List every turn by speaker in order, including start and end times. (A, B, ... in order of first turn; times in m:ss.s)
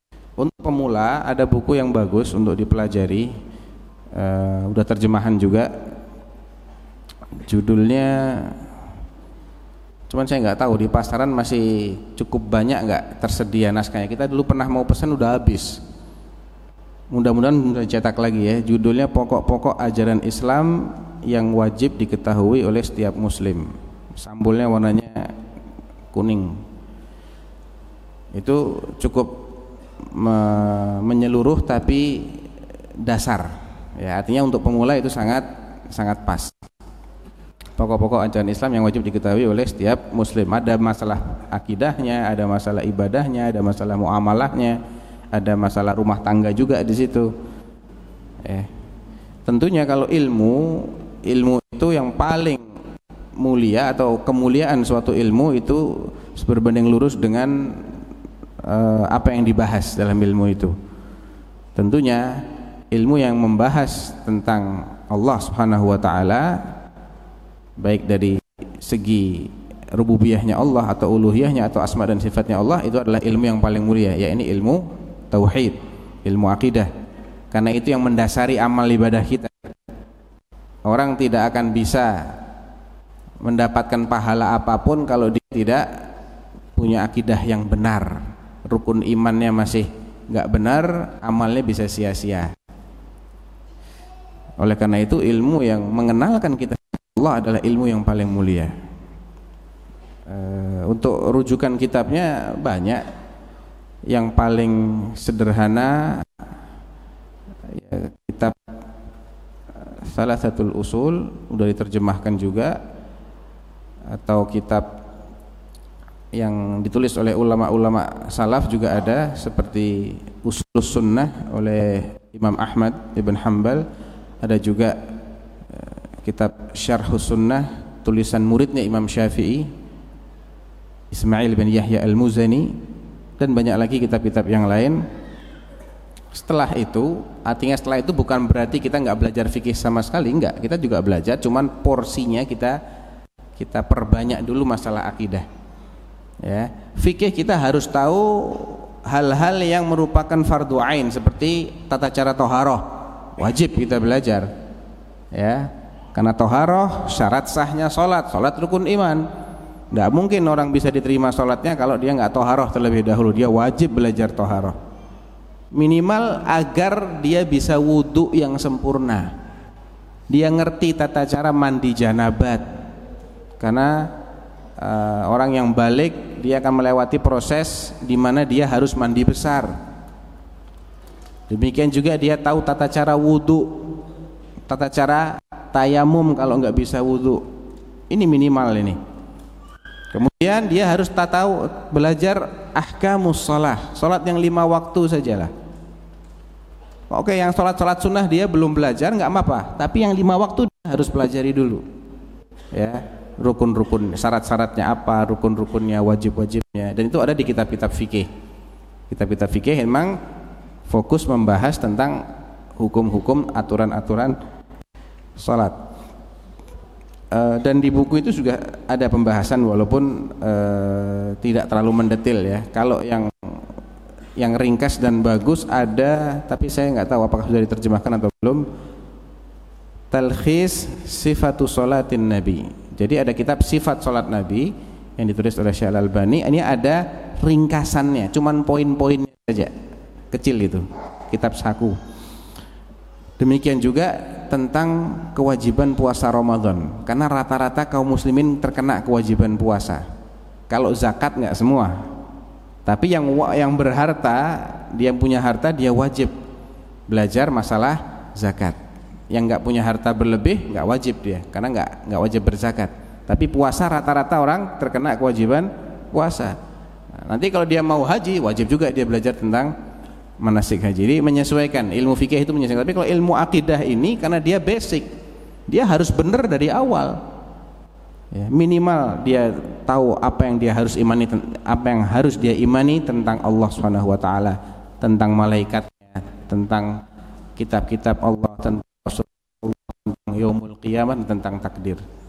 0:00.4-0:03.3 A
0:04.1-0:05.7 A
0:07.4-0:08.6 A
0:10.1-0:15.8 A
0:17.1-0:25.3 A
0:26.1-0:26.6 A
0:28.3-0:29.4 A
0:30.1-0:32.4 A
0:33.0-0:36.6 A
0:37.8-0:44.8 A
0:45.3-0:47.3 A
0:48.4-0:48.7 A
0:49.5-0:52.6 A
0:53.4-0:58.0 A
0:58.6-1:00.8 A
1:01.8-1:06.6 A
1:07.8-1:16.9 A
1:17.5-1:19.8 A
1:20.9-1:22.4 A
1:23.4-1:26.1 A
1:26.8-1:32.5 A
1:34.6-1:38.7 A
1:40.3-1:43.0 A
1:44.1-1:46.2 A
1:47.7-1:48.6 A
1:50.0-1:52.8 A
1:54.1-1:54.9 A
1:56.4-2:03.8 A
2:04.4-2:05.0 A
2:05.8-2:09.7 A
2:11.1-2:12.7 A
2:13.4-2:15.0 A
2:16.3-2:22.8 A
2:23.6-2:25.5 A
2:26.4-2:34.5 A
2:35.3-2:39.2 A
2:39.9-2:44.8 A
2:45.8-2:49.3 A
2:50.3-2:52.7 A
2:53.6-2:54.1 A
2:54.8-2:59.7 A
3:01.5-3:03.9 A
3:04.7-3:07.4 A
3:08.1-3:09.0 A
3:10.1-3:15.5 A
3:17.1-3:21.8 A
3:22.7-3:28.3 A
3:29.1-3:30.2 A
3:30.9-3:32.2 A
3:32.8-3:34.4 A
3:35.4-3:35.8 A
3:37.3-3:43.7 A
3:44.4-3:48.6 A
3:50.1-3:59.7 A
4:00.3-4:02.0 A
4:03.4-4:10.0 A
4:10.7-4:12.0 A
4:12.8-4:16.3 A
4:17.1-4:18.8 A
4:19.3-4:26.6 A
4:27.2-4:29.7 A
4:30.4-4:35.1 A
4:35.7-4:37.2 A
4:38.3-4:47.0 A
4:47.6-4:52.0 A